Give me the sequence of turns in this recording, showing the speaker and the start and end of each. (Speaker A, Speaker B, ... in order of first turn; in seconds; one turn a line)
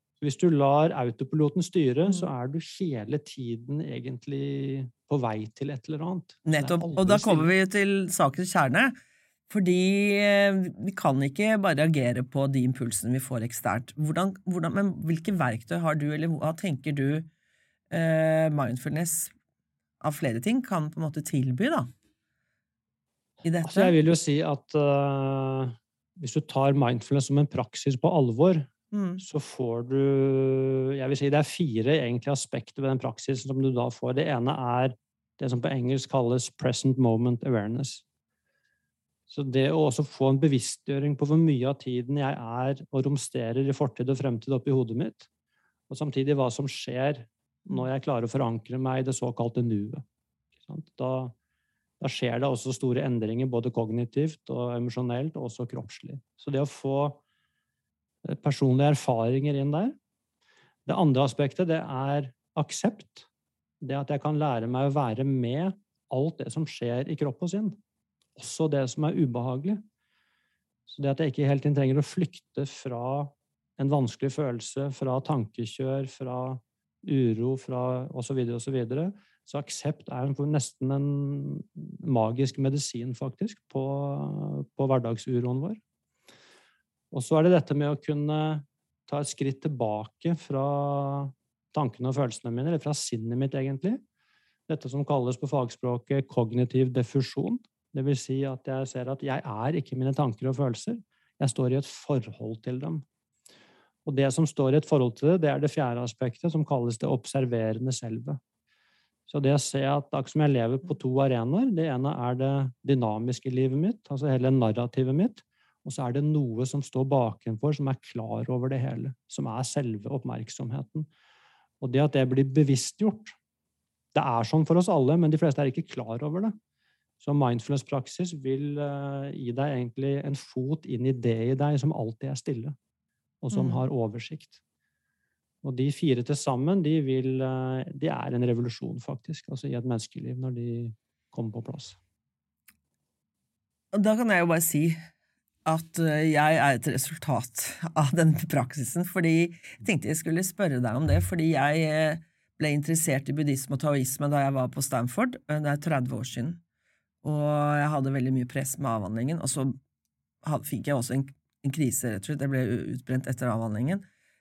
Speaker A: 0.2-7.5
Speaker B: 6.5-8.9
Speaker B: 9.5-17.3
Speaker B: 17.9-19.3
Speaker B: 20.0-21.9
Speaker B: 23.4-23.9
Speaker A: 23.6-38.0
Speaker B: 28.9-29.2
Speaker A: 39.3-45.3
Speaker A: 45.9-50.0
Speaker A: 50.7-51.3
Speaker A: 52.0-57.2
Speaker A: 58.2-60.0
Speaker A: 60.9-63.3
Speaker A: 63.8-67.8
Speaker A: 68.4-69.8
Speaker A: 70.9-85.8
Speaker A: 87.1-94.0
Speaker A: 94.7-103.0
Speaker A: 104.1-108.4
Speaker A: 109.3-121.1
Speaker A: 121.8-123.4
Speaker A: 124.1-126.5
Speaker A: 127.2-132.8
Speaker A: 133.4-134.6
Speaker B: 133.5-133.8
Speaker A: 135.6-142.0
Speaker B: 143.9-145.0
Speaker B: 145.7-156.6
Speaker B: 157.2-159.8
Speaker B: 160.4-164.1